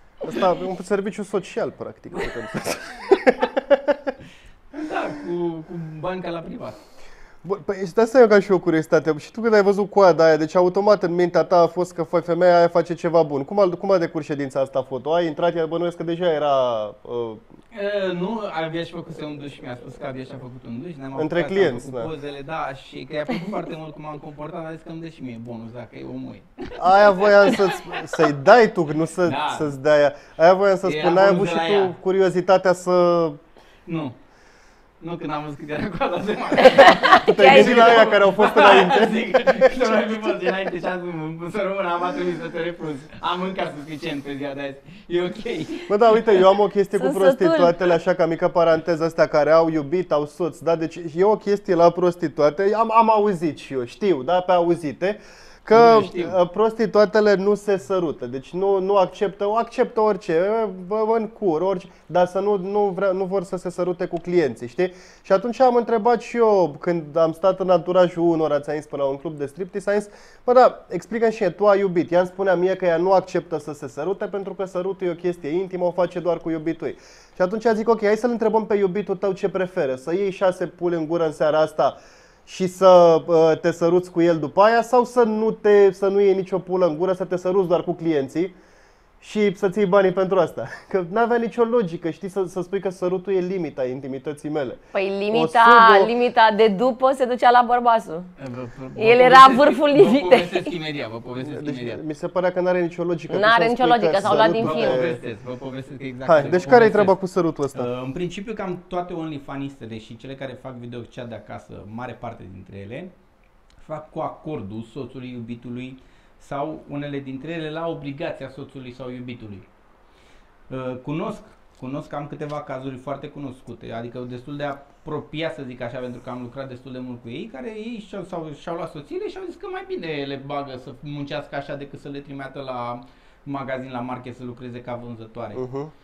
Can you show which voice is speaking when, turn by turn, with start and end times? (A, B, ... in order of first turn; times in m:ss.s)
0:00.2-0:04.2 A
0:04.7-0:06.8 B
0:07.4-0:17.4 A
0:17.7-0:27.6 B
0:21.2-0:22.1 A
0:26.8-0:33.4 A
0:29.2-0:29.7 B
0:30.8-0:31.9 B
0:33.8-0:34.2 B
0:35.0-0:45.9 B
0:36.6-0:38.1 C
0:37.2-0:39.9 A
0:45.9-1:22.0 A
0:47.0-0:48.0 C
0:55.7-0:56.4 B
1:22.5-1:28.6 A
1:29.2-1:34.8 A
1:34.9-1:38.3 C
1:35.3-1:36.1 A
1:38.4-1:42.0 B
1:39.0-1:40.7 C
1:41.4-1:45.2 A
1:43.3-1:45.1 C
1:44.6-1:47.2 B
1:46.2-1:47.9 A
1:47.7-1:53.1 B
1:53.8-1:59.7 B
2:00.7-2:15.6 B
2:15.5-2:15.9 A